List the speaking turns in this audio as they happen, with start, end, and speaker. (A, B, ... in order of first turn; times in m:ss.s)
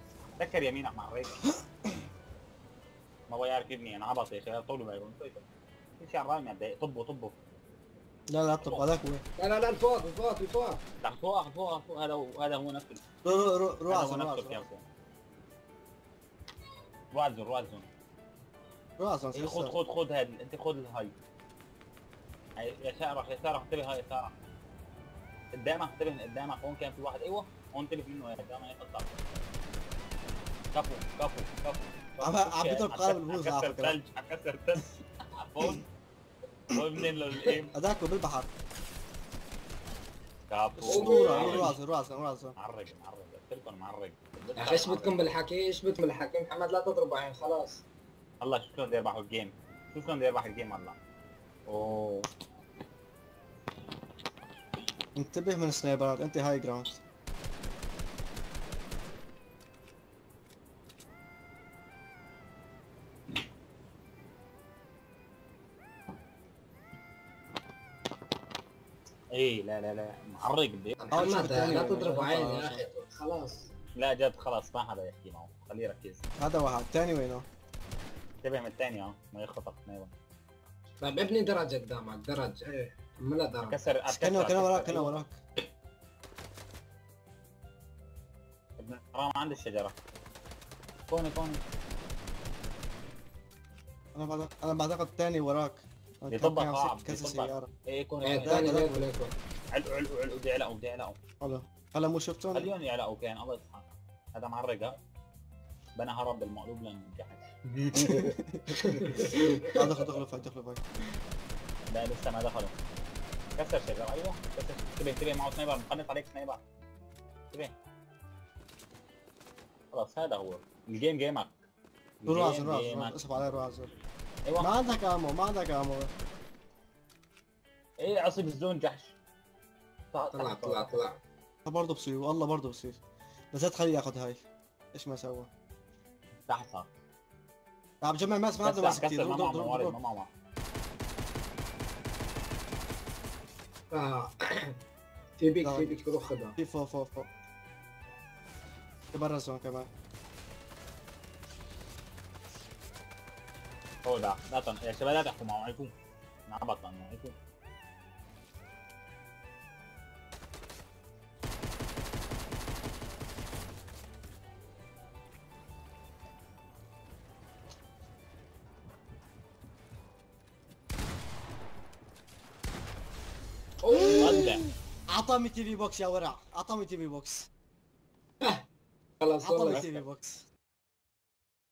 0:00.4-0:01.4 A
0:03.3-0:05.4 A
0:06.0-0:07.4 A
0:08.3-0:09.2 B
0:08.6-0:09.0 A
0:09.4-0:10.8 C
0:11.0-0:13.0 A
0:13.2-0:14.6 B
0:13.9-0:14.8 A
0:17.1-0:17.9 A
0:19.0-0:19.7 B
0:19.3-0:21.1 A
0:22.6-0:24.3 A
0:25.6-0:29.1 A
0:30.7-0:35.8 A
0:32.2-0:34.0 B
0:36.7-0:37.7 A
0:37.7-0:38.5 B
0:40.5-0:41.7 A
0:40.8-0:42.5 B
0:40.8-0:41.7 C
0:42.6-0:45.2 A
0:44.6-0:47.8 C
0:48.4-0:50.9 A
0:51.7-0:52.3 A
0:55.2-0:57.0 B
1:09.3-1:11.4 A
1:11.0-1:13.7 C
1:11.1-1:12.8 B
1:13.9-1:16.2 A
1:16.4-1:17.4 B
1:18.4-1:20.1 A
1:21.0-1:23.8 C
1:23.6-1:25.1 A
1:24.1-1:25.4 B
1:28.8-1:30.0 A
1:31.1-1:31.6 A
1:34.1-1:37.7 B
1:36.3-1:38.8 A
1:38.2-1:39.3 C
1:38.4-1:39.0 B
1:39.7-1:41.2 A
1:41.4-1:42.7 B
1:42.5-1:45.0 A
1:46.0-1:48.3 A
1:48.0-1:48.6 B
1:48.8-1:49.6 C
1:49.7-1:50.8 B
1:51.9-1:52.7 A
1:53.6-1:56.6 A
1:59.9-2:01.5 A
2:02.2-2:03.5 A
2:02.2-2:03.9 B
2:04.4-2:04.7 A
2:04.6-2:06.1 B
2:08.0-2:09.2 A
2:10.1-2:10.9 A
2:10.3-2:11.2 C
2:11.6-2:13.0 B
2:13.5-2:15.5 B
2:16.5-2:16.9 A
2:18.0-2:20.0 B
2:18.6-2:20.3 A
2:23.9-2:24.8 C
2:25.4-2:26.5 C
2:25.6-2:26.0 B
2:26.6-2:27.3 B
2:29.1-2:29.9 B
2:34.0-2:35.9 A
2:36.5-2:37.3 A
2:53.8-2:54.5 C
2:54.1-2:54.6 A
2:55.1-2:57.5 B
2:59.2-2:59.9 C
2:59.4-3:00.5 B